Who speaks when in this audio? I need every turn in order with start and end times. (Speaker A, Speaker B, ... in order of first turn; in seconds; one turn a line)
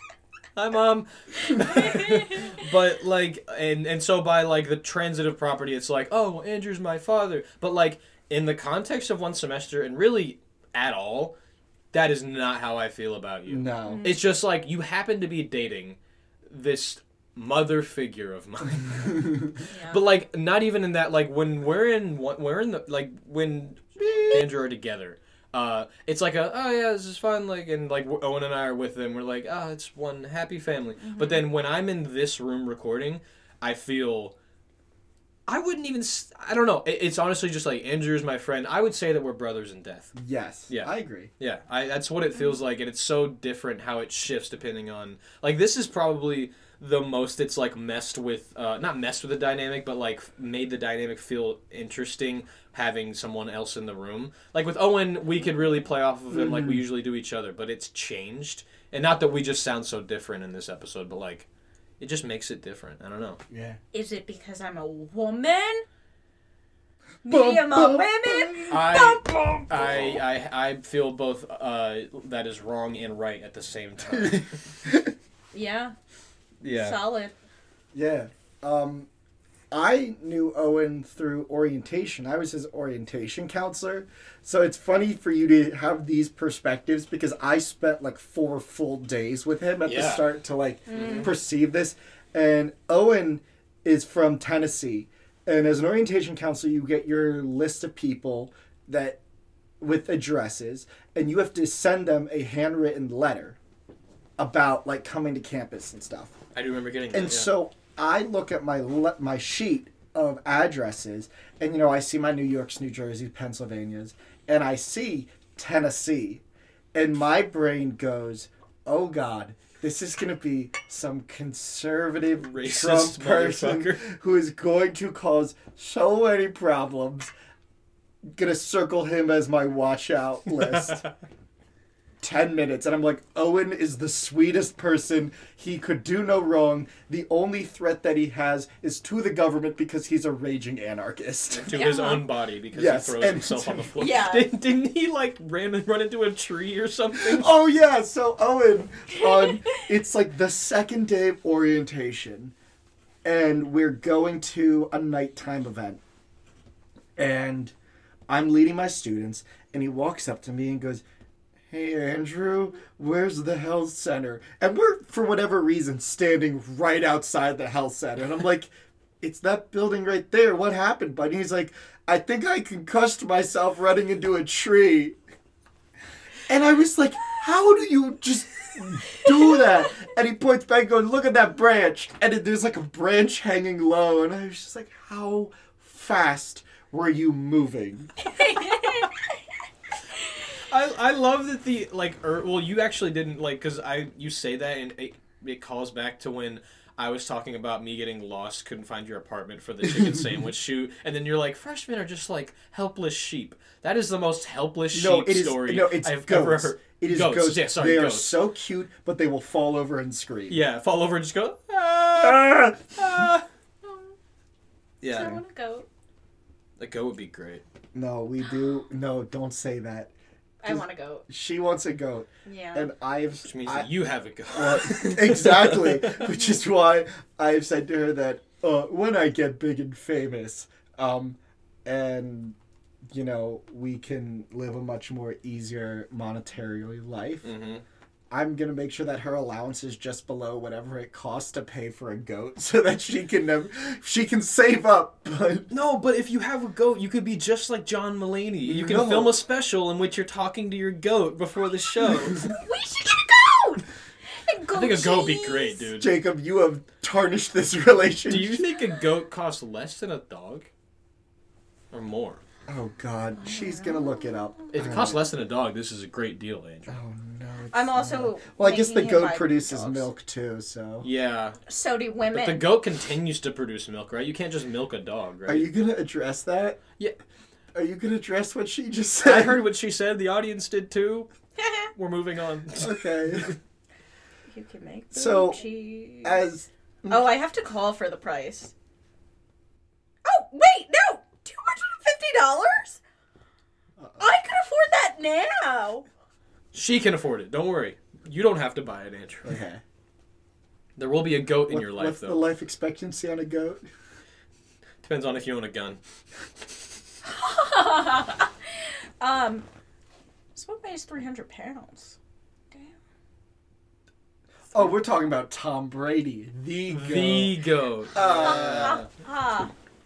Speaker A: 0.6-11.4
Speaker B: 1.4-2.6
Speaker A: 11.9-34.4
Speaker C: 13.5-14.1
Speaker B: 13.9-14.2
Speaker C: 19.1-19.6
Speaker B: 19.7-20.0
Speaker C: 24.0-24.4
Speaker B: 31.0-31.4
Speaker A: 35.5-40.1
Speaker C: 40.2-41.3
Speaker A: 40.7-61.5
Speaker C: 56.3-56.8
Speaker A: 62.0-63.4
Speaker C: 63.5-63.8
Speaker B: 63.9-65.8
Speaker B: 67.2-69.7
Speaker C: 67.3-70.2
Speaker A: 68.7-74.6
Speaker C: 74.1-75.1
Speaker B: 75.5-75.9
Speaker A: 76.6-77.0
Speaker B: 76.7-77.3
Speaker C: 77.9-79.1
Speaker C: 79.7-99.2
Speaker A: 89.8-90.2
Speaker B: 90.9-91.3
Speaker A: 90.9-91.3
Speaker C: 99.8-103.6
Speaker C: 104.4-106.3
Speaker A: 106.5-107.5
Speaker C: 107.1-116.4
Speaker C: 117.0-127.3
Speaker A: 122.4-124.1
Speaker C: 128.3-131.0
Speaker A: 130.5-131.1
Speaker C: 132.2-141.8
Speaker A: 141.5-147.5
Speaker B: 141.7-142.3
Speaker C: 142.7-143.9
Speaker B: 144.0-144.5
Speaker C: 147.2-152.6
Speaker B: 149.2-149.6
Speaker C: 153.2-156.0
Speaker C: 157.2-157.7
Speaker C: 158.3-161.0
Speaker C: 161.7-175.2
Speaker C: 176.5-188.1
Speaker B: 179.2-179.7
Speaker B: 188.3-189.2
Speaker A: 190.7-208.4
Speaker C: 200.0-200.3
Speaker C: 204.9-210.6
Speaker A: 210.5-213.5
Speaker C: 212.2-212.8
Speaker B: 213.8-214.2
Speaker A: 215.0-215.4
Speaker B: 215.1-215.9
Speaker A: 216.8-217.6
Speaker C: 217.9-220.1
Speaker B: 220.6-221.3
Speaker C: 220.7-223.9
Speaker B: 222.4-222.9
Speaker A: 223.4-226.3
Speaker C: 224.5-232.6
Speaker B: 226.2-226.6
Speaker C: 233.1-237.5
Speaker A: 237.4-237.8
Speaker C: 238.3-245.7
Speaker A: 245.7-252.5
Speaker C: 248.7-249.4
Speaker B: 252.4-255.9
Speaker A: 254.7-256.1
Speaker C: 256.0-258.6
Speaker A: 258.3-260.7
Speaker A: 261.9-262.4
Speaker C: 262.7-265.2
Speaker B: 263.4-264.6
Speaker A: 264.7-267.0
Speaker C: 266.9-271.1
Speaker B: 267.7-270.1
Speaker A: 271.0-271.6
Speaker B: 271.7-272.7
Speaker A: 272.3-275.7
Speaker C: 275.5-276.8
Speaker C: 277.8-279.6
Speaker A: 279.2-281.3
Speaker B: 281.6-281.9
Speaker A: 281.9-283.5
Speaker C: 282.8-283.6
Speaker B: 284.5-286.4
Speaker C: 285.1-285.6
Speaker C: 286.2-287.2
Speaker B: 287.1-288.7
Speaker B: 290.2-293.0
Speaker C: 294.0-294.3
Speaker B: 294.2-296.1
Speaker A: 296.7-299.6
Speaker C: 299.4-299.8
Speaker A: 301.0-302.4
Speaker C: 301.7-303.8
Speaker A: 305.0-306.0
Speaker B: 307.2-309.7
Speaker B: 310.5-312.2
Speaker C: 314.7-317.6
Speaker A: 316.9-319.1
Speaker C: 318.1-319.1
Speaker B: 318.4-319.7